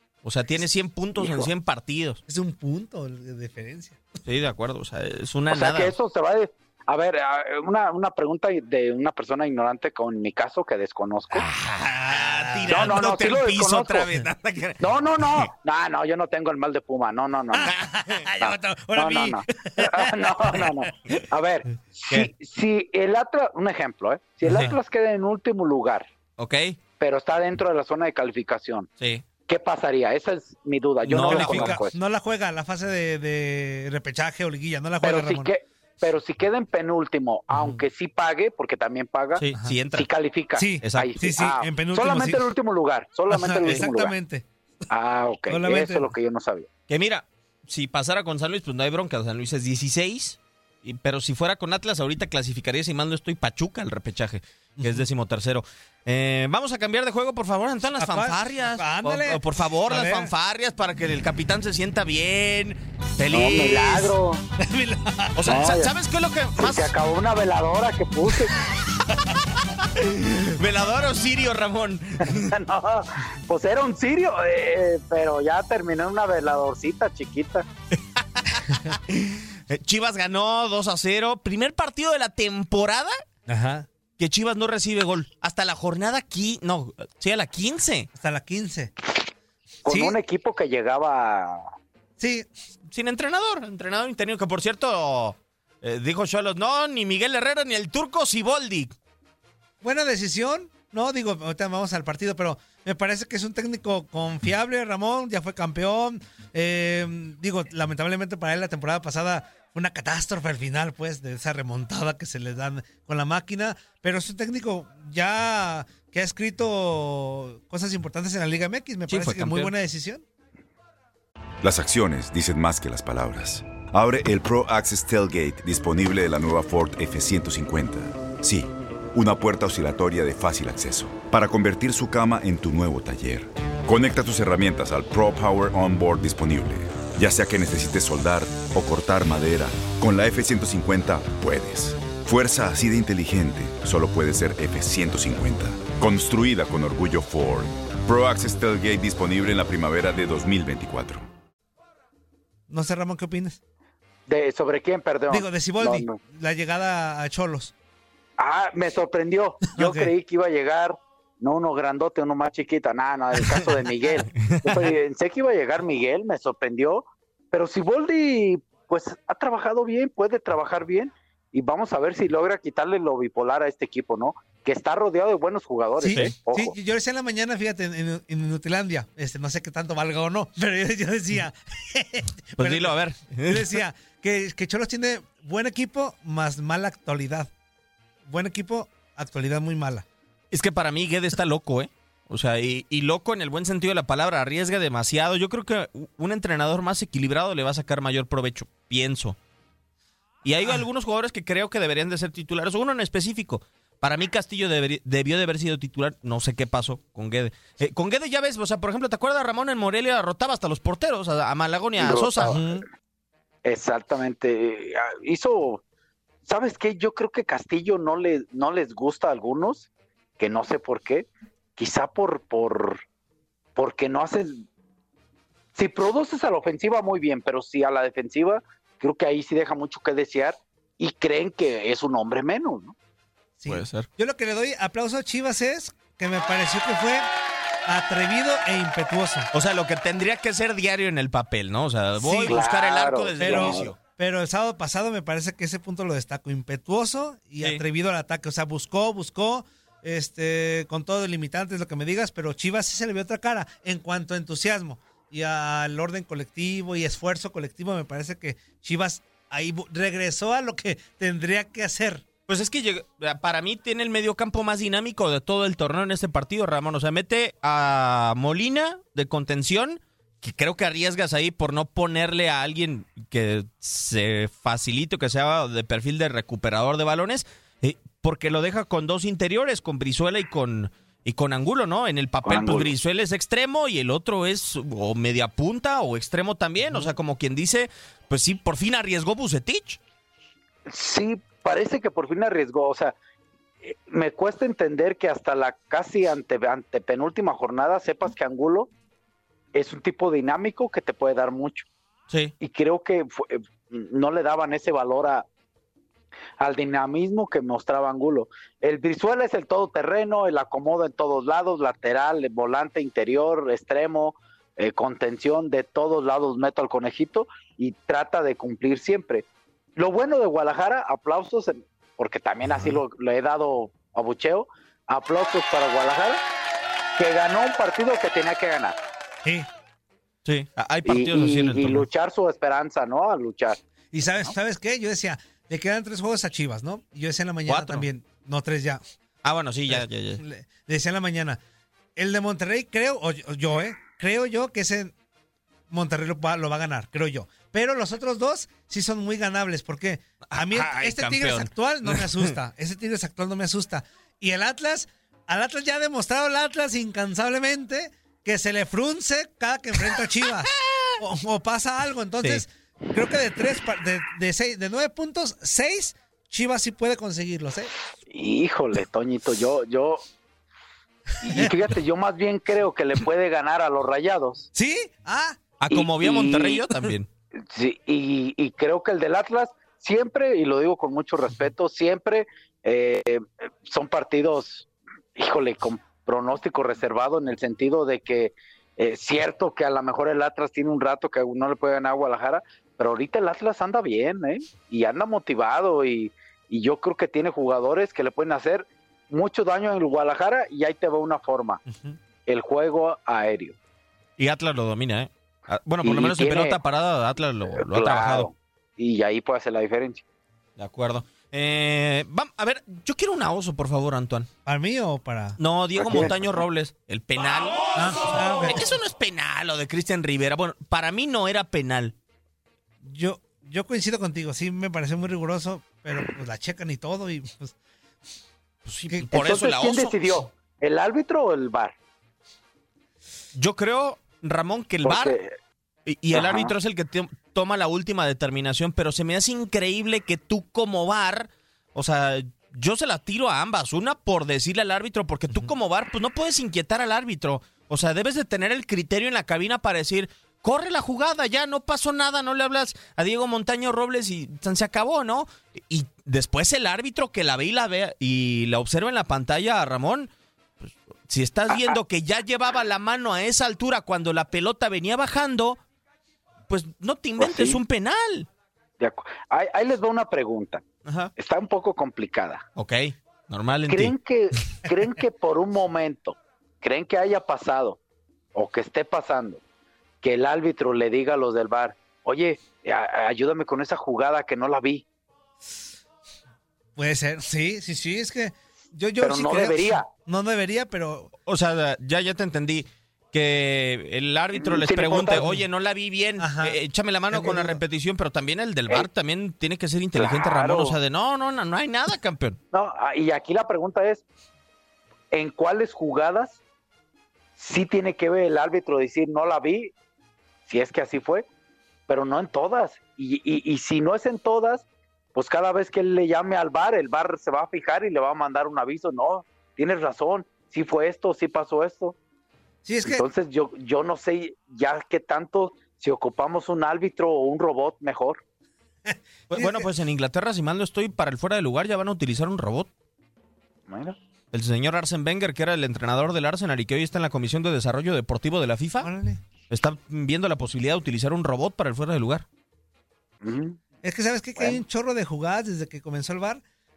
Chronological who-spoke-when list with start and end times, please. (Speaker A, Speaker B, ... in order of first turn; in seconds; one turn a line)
Speaker A: 0.2-2.2
Speaker B: 1.2-1.5
Speaker C: 2.3-4.0
Speaker A: 4.2-6.0
Speaker B: 5.5-11.5
Speaker A: 11.3-15.5
Speaker C: 11.9-13.1
Speaker B: 12.7-14.1
Speaker B: 14.8-17.8
Speaker C: 17.5-20.9
Speaker A: 17.6-18.3
Speaker B: 18.4-26.1
Speaker A: 24.5-24.8
Speaker A: 26.4-26.8
Speaker B: 27.0-28.9
Speaker B: 29.5-32.0
Speaker A: 31.1-31.8
Speaker C: 31.2-35.5
Speaker B: 35.0-44.1
Speaker C: 37.5-37.8
Speaker A: 39.4-40.1
Speaker C: 40.6-42.4
Speaker A: 40.8-41.1
Speaker C: 43.3-44.5
Speaker B: 44.9-46.7
Speaker C: 45.5-46.1
Speaker A: 46.9-64.1
Speaker C: 54.8-55.1
Speaker C: 58.0-60.3
Speaker B: 63.3-64.4
Speaker C: 64.6-65.6
Speaker A: 65.4-66.9
Speaker B: 65.5-65.9
Speaker B: 66.6-68.6
Speaker C: 69.1-69.4
Speaker A: 69.8-72.5
Speaker B: 72.2-77.7
Speaker A: 78.2-83.1
Speaker C: 83.5-83.9
Speaker A: 84.2-88.1
Speaker C: 88.2-88.9
Speaker B: 89.8-91.7
Speaker C: 89.9-90.2
Speaker C: 92.2-92.5
Speaker A: 92.9-98.9
Speaker C: 99.8-120.2
Speaker A: 119.1-119.7
Speaker D: 121.6-151.3
Speaker C: 152.7-153.6
Speaker B: 154.3-156.2
Speaker C: 155.3-157.7
Speaker B: 158.4-176.7
Speaker C: 159.8-160.1
Speaker A: 164.4-164.9
Speaker C: 176.0-187.5
Speaker A: 176.1-176.3
Speaker A: 182.6-183.8
Speaker C: 188.3-190.1
Speaker A: 190.5-199.4
Speaker A: 200.4-212.6
Speaker B: 212.0-212.8
Speaker C: 212.4-212.9
Speaker B: 213.7-215.8
Speaker B: 216.4-219.9
Speaker B: 220.4-223.0
Speaker B: 223.8-224.6
Speaker B: 225.8-232.9
Speaker C: 233.6-237.3
Speaker A: 233.7-234.1
Speaker C: 237.9-239.5
Speaker A: 239.5-244.0
Speaker C: 242.2-242.6
Speaker B: 242.4-243.9
Speaker C: 243.4-262.2
Speaker A: 262.5-290.0
Speaker B: 282.4-282.9
Speaker B: 290.9-293.1
Speaker B: 293.8-298.9
Speaker B: 299.7-301.9
Speaker B: 302.6-305.5
Speaker B: 306.6-326.4
Speaker B: 327.2-329.0
Speaker A: 330.4-332.1
Speaker B: 331.1-333.8
Speaker C: 334.1-339.0
Speaker A: 337.7-338.1
Speaker A: 339.4-340.4
Speaker C: 339.9-341.6
Speaker C: 342.2-345.1
Speaker C: 345.9-367.9
Speaker A: 350.5-352.5
Speaker B: 368.3-370.2
Speaker B: 371.4-374.7
Speaker C: 371.4-371.8
Speaker C: 374.8-375.6
Speaker A: 375.8-377.3
Speaker B: 375.9-376.9
Speaker B: 377.7-401.8
Speaker C: 401.9-402.2
Speaker B: 402.5-403.8
Speaker A: 404.4-408.5
Speaker B: 406.0-406.8
Speaker B: 407.7-410.2
Speaker A: 410.8-414.5
Speaker C: 414.7-415.6
Speaker A: 415.6-422.1
Speaker B: 416.0-416.3
Speaker C: 417.9-418.9
Speaker C: 423.0-427.7
Speaker A: 428.9-430.4
Speaker B: 429.3-431.9
Speaker A: 433.6-435.4
Speaker B: 435.1-435.5
Speaker A: 436.1-460.3
Speaker B: 436.3-436.7
Speaker A: 460.8-465.8
Speaker B: 461.7-462.0
Speaker A: 466.7-468.5
Speaker B: 467.4-467.8
Speaker B: 469.0-470.8
Speaker A: 471.1-471.3
Speaker B: 471.4-472.7
Speaker A: 472.8-474.1
Speaker B: 473.9-478.0
Speaker B: 478.6-479.6
Speaker B: 480.2-485.1
Speaker C: 487.0-491.3
Speaker B: 489.2-490.1
Speaker A: 491.5-502.6
Speaker B: 494.6-495.5
Speaker C: 495.4-495.6
Speaker C: 496.4-496.8
Speaker C: 497.3-497.8
Speaker B: 500.2-501.0
Speaker B: 502.7-504.2
Speaker B: 505.3-506.6
Speaker B: 507.6-509.9
Speaker B: 510.7-511.4
Speaker B: 512.1-522.2
Speaker C: 522.8-523.2
Speaker B: 523.1-528.4
Speaker C: 529.1-529.9
Speaker A: 529.5-532.9
Speaker B: 533.9-534.2
Speaker A: 534.5-539.1
Speaker C: 539.0-539.4
Speaker A: 539.7-542.5
Speaker B: 543.4-543.8
Speaker C: 544.0-546.6